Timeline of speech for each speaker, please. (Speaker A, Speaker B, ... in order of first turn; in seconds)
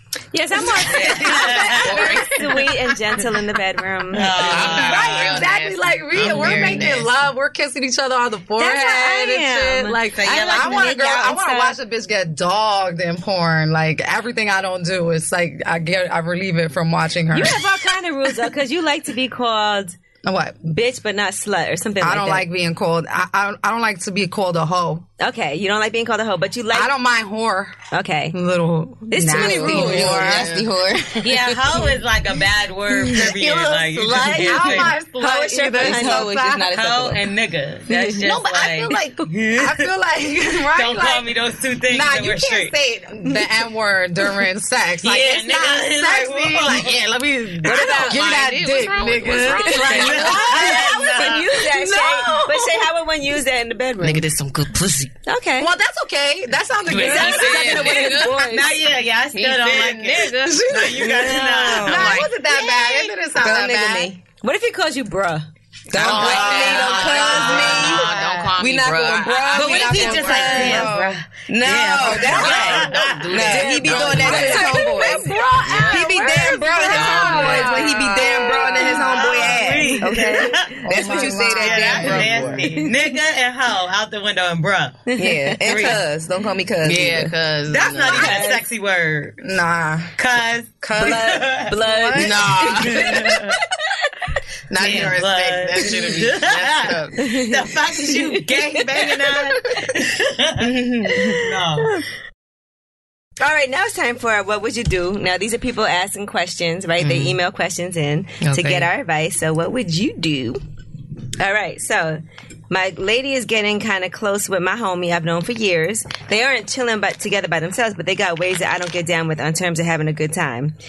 Speaker A: 0.3-4.8, 6.3-6.5, 8.6-11.8, 17.3-20.0, 20.7-22.5, 25.2-26.9, 27.9-28.4, 29.1-30.4, 34.1-36.3, 37.9-38.2, 47.6-48.2, 50.2-54.3, 55.3-55.7, 56.9-58.7, 64.4-65.5, 73.6-75.4, 76.2-77.7, 79.9-81.2, 85.1-86.0, 88.1-88.6, 91.0-93.4, 97.2-99.1, 101.1-102.0, 103.4-110.6, 111.4-120.8
Speaker B: 0.8-2.1, 4.4-17.7, 20.2-20.7, 22.0-25.1, 26.7-27.8, 28.3-30.5, 33.1-36.6, 38.2-41.3, 41.9-52.9, 55.6-58.3, 60.4-64.1, 66.0-68.5, 69.9-71.2, 72.1-72.8, 73.5-79.9, 80.8-82.6, 89.4-90.2, 90.8-92.7
Speaker C: 0.8-2.6, 4.1-5.4, 10.2-11.1, 31.2-35.0, 36.6-39.9, 40.6-42.8, 45.0-47.1, 49.4-51.5, 58.4-62.2, 66.0-68.4, 69.5-73.7, 78.8-85.1, 85.6-86.0, 87.7-89.4, 90.2-91.8, 92.8-93.5, 94.8-101.9
Speaker D: 1.8-2.4, 4.4-7.2, 29.4-30.7, 47.6-50.8, 54.0-55.2, 56.9-58.5, 59.3-61.3, 61.8-62.4, 66.0-70.9, 72.1-74.8, 75.6-76.1, 76.9-78.4, 82.0-82.6, 86.8-88.4, 92.2-93.5, 94.7-97.3, 107.0-107.4, 108.4-108.9
Speaker E: 29.2-31.8, 35.7-37.2, 61.3-62.1, 63.4-64.2, 65.9-70.9, 71.5-82.8, 85.2-87.3